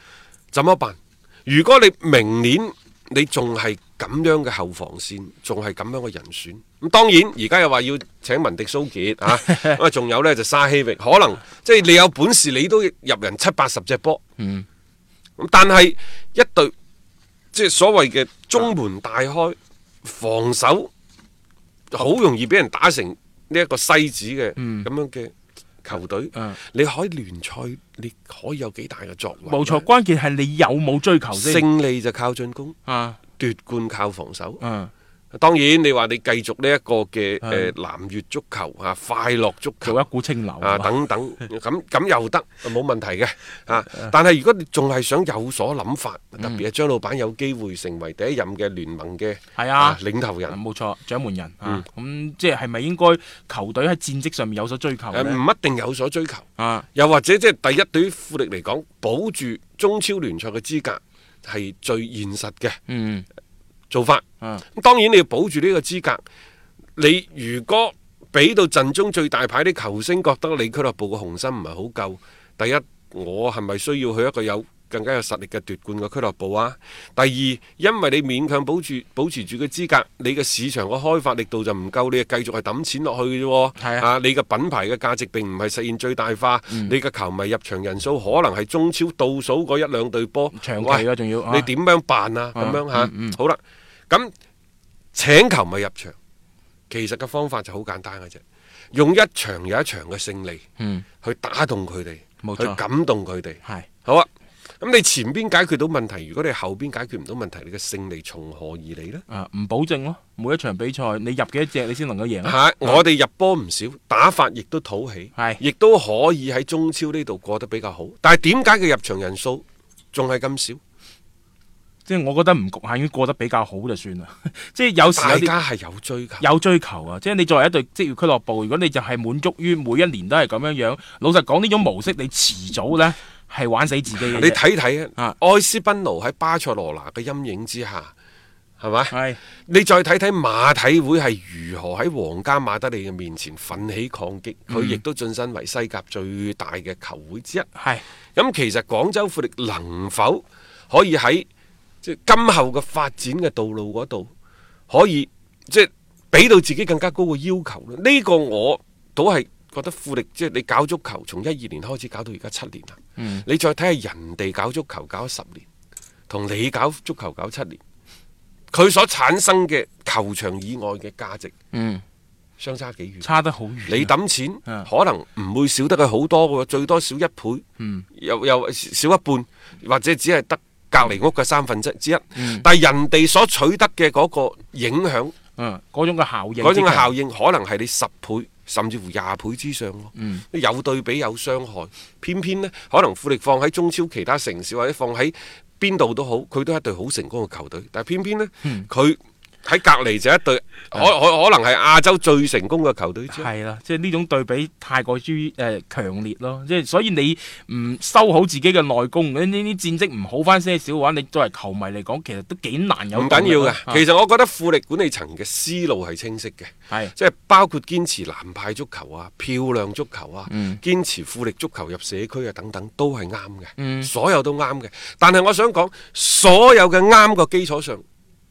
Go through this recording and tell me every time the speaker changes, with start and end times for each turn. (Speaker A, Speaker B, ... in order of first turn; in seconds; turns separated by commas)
Speaker A: 0.5-14.2, Speaker B: 14.4-14.7, Speaker A: 15.4-16.7, Speaker A: 17.5-20.9, Speaker A: 21.9-25.3, Speaker B: 24.6-24.9, Speaker A: 25.8-29.9, Speaker B: 29.5-31.6, Speaker A: 31.3-32.8, Speaker B: 32.9-33.2, Speaker A: 33.4-34.6, Speaker B: 34.6-34.9, Speaker A: 35.3-40.0, Speaker B: 37.4-37.7, Speaker B: 39.8-40.9, Speaker A: 40.6-50.6, Speaker B: 49.5-55.4, Speaker A: 55.1-62.8, Speaker B: 56.6-56.9, Speaker B: 62.9-63.2, Speaker A: 63.9-64.2, Speaker A: 64.7-66.2, Speaker A: 67.0-93.6, Speaker B: 83.8-84.1, Speaker B: 86.7-87.0, Speaker B: 90.5-91.7, Speaker B: 92.5-93.4, Speaker A: 95.1-96.1, Speaker A: 96.9-98.4, Speaker A: 98.9-100.6, Speaker B: 100.8-101.0, Speaker A: 101.2-104.3, Speaker B: 102.4-102.8, Speaker A: 104.8-109.2, Speaker B: 109.3-113.0, Speaker A: 112.4-120.8, Speaker B: 122.0-125.5, Speaker A: 125.2-126.4, Speaker B: 126.4-134.6, Speaker A: 134.3-138.1, Speaker A: 138.8-139.1, Speaker B: 139.1-139.4, Speaker A: 139.7-147.7, Speaker B: 144.7-145.0, Speaker B: 147.8-148.0, Speaker A: 148.3-151.5, Speaker A: 152.0-154.3, Speaker A: 154.9-165.6, Speaker B: 163.2-163.4, Speaker A: 166.3-167.8, Speaker A: 168.7-171.5, Speaker B: 171.7-172.0, Speaker A: 172.6-173.3, Speaker B: 173.2-174.1, Speaker A: 173.9-177.6, Speaker B: 177.8-178.0, Speaker A: 178.2-185.3, Speaker B: 182.3-182.6, Speaker B: 185.6-187.1, Speaker A: 186.6-203.5, Speaker B: 190.2-190.4, Speaker B: 203.3-214.0, Speaker A: 213.1-228.0, Speaker B: 220.5-220.8, Speaker B: 223.8-224.1